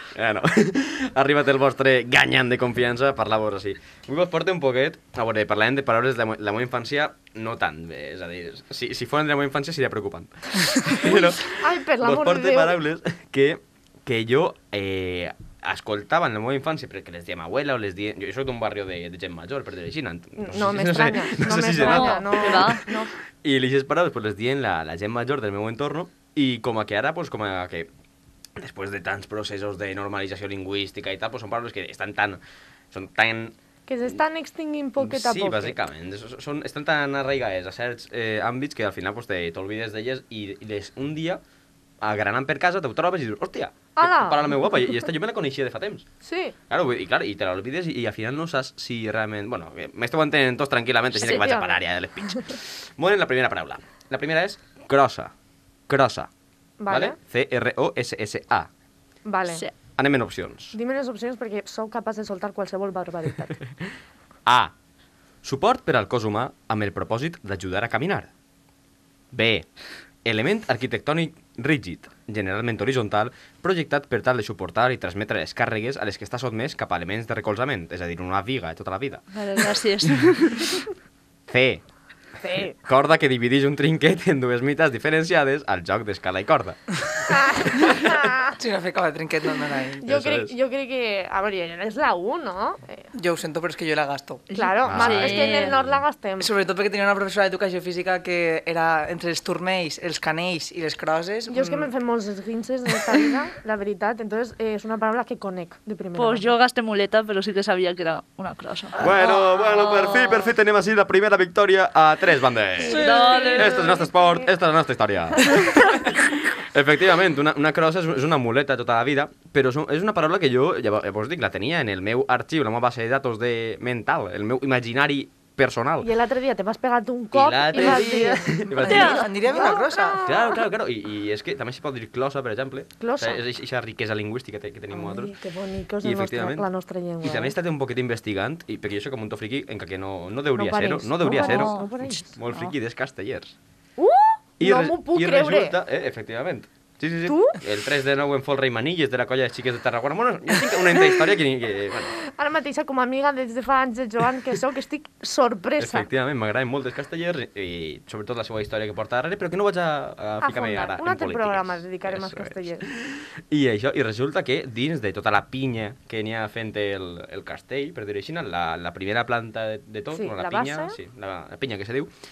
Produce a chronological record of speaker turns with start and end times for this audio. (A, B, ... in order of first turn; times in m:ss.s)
0:00.1-0:27.9 A
0:10.8-0:12.8 B
0:20.4-0:23.1 B
0:21.8-0:22.8 C
0:28.6-0:32.4 A
0:32.9-0:33.5 A
0:33.9-0:35.8 B
0:35.0-0:41.4 A
0:42.0-0:46.0 A
0:44.0-0:44.7 B
0:46.2-0:46.6 B
0:46.7-0:55.3 A
0:51.1-0:51.8 B
0:55.9-0:56.3 A
0:56.8-0:57.2 B
0:56.9-0:58.7 A
0:59.2-0:59.6 B
1:00.0-1:00.7 A
1:00.7-1:03.6 B
1:04.4-1:04.7 A
1:05.4-1:08.3 A
1:09.3-1:09.7 A
1:10.2-1:19.2 A
1:19.3-1:20.8 C
1:21.5-1:21.8 A
1:22.4-1:22.8 B
1:22.8-1:26.8 A
1:27.3-1:28.5 B
1:27.6-1:28.0 A
1:28.6-1:30.0 D
1:30.0-1:33.1 B
1:30.0-1:30.5 A
1:33.1-1:34.5 D
1:34.5-1:35.7 C
1:34.5-1:36.5 B
1:34.8-1:36.0 A
1:36.4-1:41.9 D
1:41.5-1:46.5 B
1:46.2-1:49.1 C
1:49.0-2:06.1 A
1:49.9-1:50.4 C
1:52.9-1:53.7 D
1:52.9-1:53.9 C
1:53.4-1:54.4 B
2:06.0-2:10.6 B
2:07.3-2:09.2 A
2:08.8-2:10.2 D
2:08.8-2:09.2 C
2:10.2-2:15.3 A
2:13.0-2:13.4 B
2:14.9-2:17.5 B
2:16.0-2:16.7 A
2:17.2-2:23.5 A
2:20.5-2:22.4 B
2:21.3-2:21.9 C
2:24.0-2:25.8 B
2:24.6-2:32.1 A
2:27.3-2:27.6 B
2:32.3-2:36.1 B
2:35.8-2:52.1 A
2:40.4-2:42.8 B
2:50.1-2:51.0 B